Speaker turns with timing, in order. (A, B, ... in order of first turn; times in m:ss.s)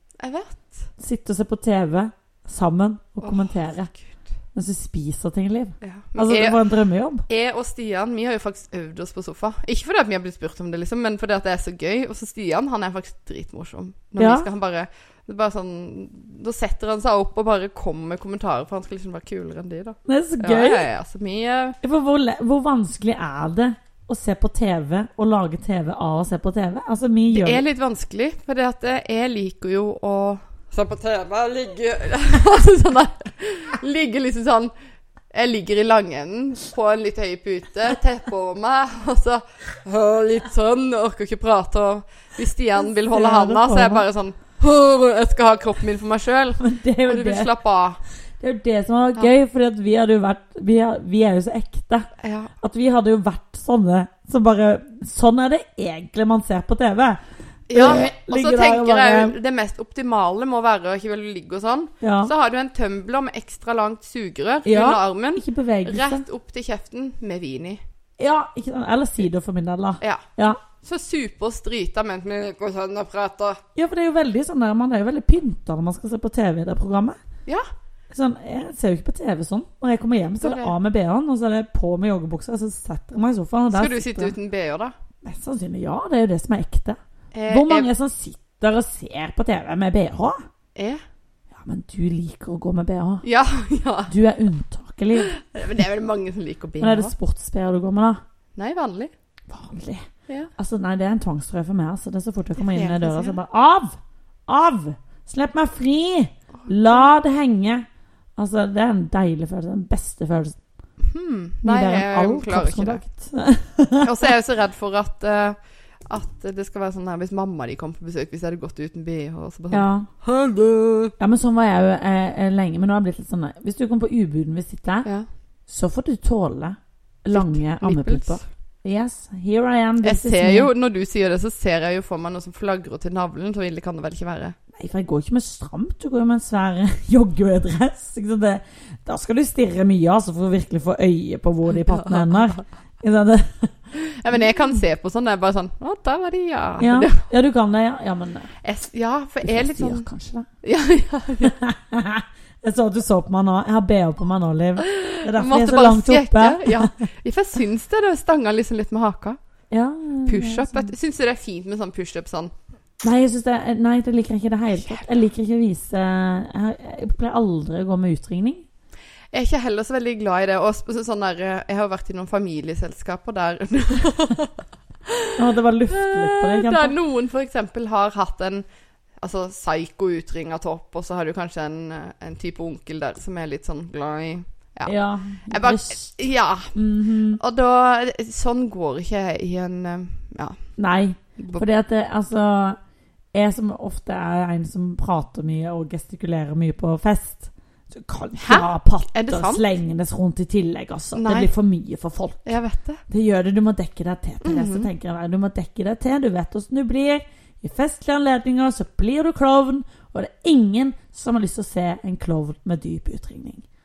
0:00.2-0:00.9 A
0:01.0-0:03.9 B
0:03.2-0:04.2 A
0:04.5-0:07.2 B
0:05.8-0:06.6 A
0:07.3-0:21.8 A
0:14.2-0:14.5 B
0:20.0-0:20.9 B
0:21.8-0:27.6 B
0:27.3-0:34.7 A
0:35.3-0:48.0 A
0:43.1-0:44.1 B
0:46.6-0:47.5 B
0:48.4-0:52.1 B
0:52.2-0:52.5 A
0:52.6-0:57.2 B
0:57.7-1:07.8 A
0:57.7-0:59.4 B
1:02.0-1:02.3 B
1:04.6-1:06.2 B
1:08.2-1:10.6 B
1:10.8-1:13.6 A
1:13.8-1:17.2 B
1:18.1-1:24.3 B
1:20.4-1:20.7 A
1:23.7-1:24.9 A
1:25.2-1:27.0 B
1:27.3-1:27.9 A
1:27.5-1:30.4 B
1:31.5-1:33.2 B
1:33.2-1:34.1 A
1:34.1-1:35.3 B
1:35.3-1:37.1 A
1:36.8-1:38.2 B
1:38.6-1:39.1 A
1:39.5-1:47.8 B
1:42.6-1:43.4 A
1:46.6-1:47.0 A
1:48.4-1:50.6 B
1:51.0-1:53.0 A
1:51.6-1:54.2 B
1:54.0-2:01.1 A
1:59.7-2:00.1 B
2:01.2-2:05.1 B
2:05.7-2:10.7 B
2:07.3-2:08.4 A
2:10.0-2:14.6 A
2:14.7-2:23.7 B
2:21.8-2:22.6 A
2:23.9-2:27.2 A
2:26.8-2:28.5 B
2:28.6-2:30.0 A
2:29.4-2:30.5 B
2:30.6-2:31.6 A
2:31.4-2:36.9 B
2:34.8-2:39.4 A
2:39.7-2:40.9 B
2:40.2-2:42.5 A
2:43.0-2:48.6 B
2:49.3-2:54.5 A
2:55.1-2:55.4 A
2:55.4-2:56.9 B
2:55.9-2:58.6 A
2:59.2-3:06.8 A
3:04.8-3:06.2 B
3:06.7-3:07.4 B
3:07.3-3:10.6 A
3:10.8-3:12.8 B
3:11.4-3:11.6 A
3:13.3-3:22.5 B
3:18.4-3:19.7 A
3:21.1-3:21.5 A
3:22.4-3:23.0 A
3:23.1-3:33.6 B
3:24.4-3:24.9 A